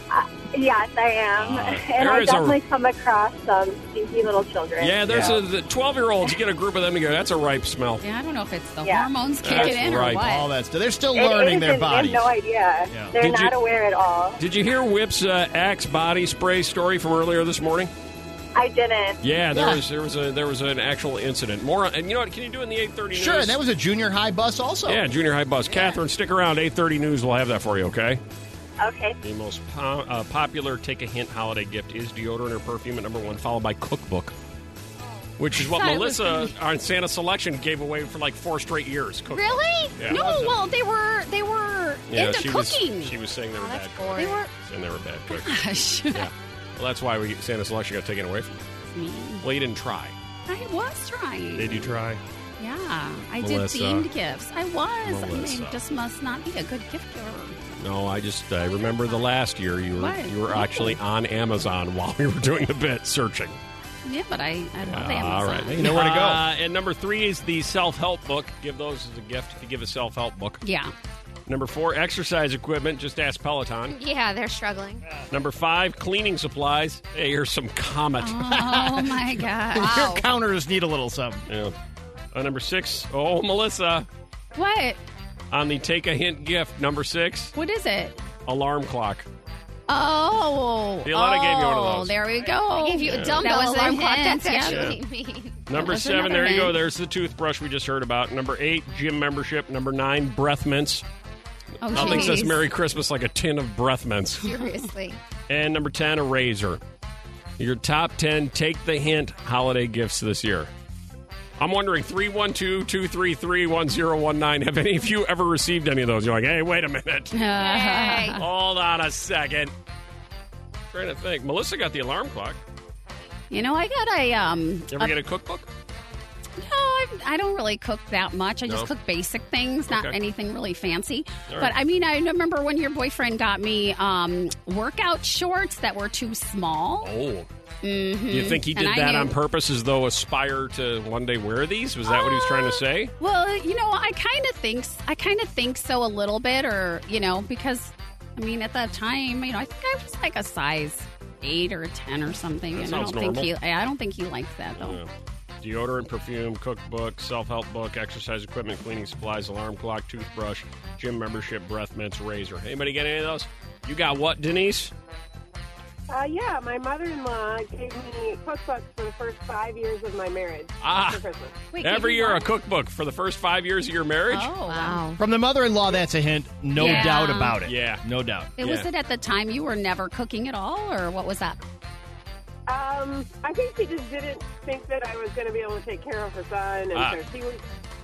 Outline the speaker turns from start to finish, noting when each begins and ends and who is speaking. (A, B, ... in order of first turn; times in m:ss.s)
0:00.1-0:05.2 A
0:01.4-0:02.6 B
0:04.8-0:08.0 B
0:05.1-0:05.4 C
0:08.0-0:10.5 D
0:08.8-0:09.1 A
0:09.4-0:10.2 B
0:10.2-0:12.3 C
0:11.1-0:14.4 A
0:12.9-0:13.1 C
0:13.2-0:13.5 B
0:14.4-0:17.9 B
0:18.5-0:19.2 A
0:19.2-0:23.6 B
0:19.5-0:19.8 C
0:23.1-0:25.0 C
0:24.8-0:28.2 B
0:28.8-0:29.2 A
0:29.2-0:34.3 B
0:35.0-0:35.3 E
0:35.4-0:40.5 B
0:35.6-0:36.5 D
0:39.3-0:43.1 D
0:39.4-0:39.6 E
0:40.1-0:40.5 C
0:42.1-0:45.6 B
0:43.5-0:44.4 E
0:44.1-0:44.5 D
0:45.3-0:46.3 D
0:46.1-0:48.6 B
0:48.8-0:49.4 D
0:49.4-0:50.2 B
0:50.5-0:51.9 D
0:51.6-0:52.2 B
0:52.6-0:57.7 D
0:53.4-0:54.1 B
0:55.0-0:55.8 B
0:57.8-1:03.6 B
1:00.0-1:01.0 D
1:04.0-1:05.9 D
1:04.8-1:10.6 B
1:05.7-1:06.4 C
1:10.6-1:10.9 D
1:11.5-1:14.0 B
1:13.9-1:15.0 E
1:15.3-1:18.5 B
1:18.2-1:20.1 D
1:18.4-1:21.4 C
1:19.8-1:20.2 E
1:21.5-1:21.7 B
1:22.3-1:24.1 B
1:24.5-1:25.0 D
1:25.5-1:27.5 B
1:27.5-1:28.2 D
1:28.4-1:29.3 B
1:29.9-1:35.0 D
1:31.0-1:32.2 B
1:32.6-1:35.7 E
1:33.0-1:33.5 B
1:34.6-1:35.0 B
1:35.7-1:41.0 B
1:35.7-1:36.8 D
1:41.8-1:42.6 D
1:41.8-1:44.5 B
1:41.9-1:42.4 E
1:44.4-1:45.2 E
1:45.5-1:46.8 B
1:47.6-1:50.7 B
1:51.6-1:57.4 B
1:57.3-1:58.4 D
1:57.5-1:58.4 E
1:58.4-1:59.7 B
2:00.9-2:02.6 B
2:03.5-2:05.2 D
2:04.9-2:05.7 B
2:06.6-2:17.1 D
2:09.9-2:10.2 B
2:11.5-2:11.7 B
2:17.0-2:17.5 B
2:17.8-2:19.3 D
2:18.3-2:23.1 B
2:22.0-2:35.0 D
2:32.7-2:33.5 B
2:34.8-2:44.9 B
2:46.1-2:51.6 F
2:50.8-2:51.2 B
2:51.7-2:52.5 D
2:51.8-2:54.5 B
2:54.3-2:55.1 D
2:54.7-2:55.2 E
2:55.2-2:58.5 C
2:56.8-2:57.6 D
2:56.8-2:57.1 B
2:57.6-2:58.0 B
2:58.6-2:58.9 B
2:58.6-3:01.6 D
3:02.7-3:07.6 F
3:06.9-3:07.2 B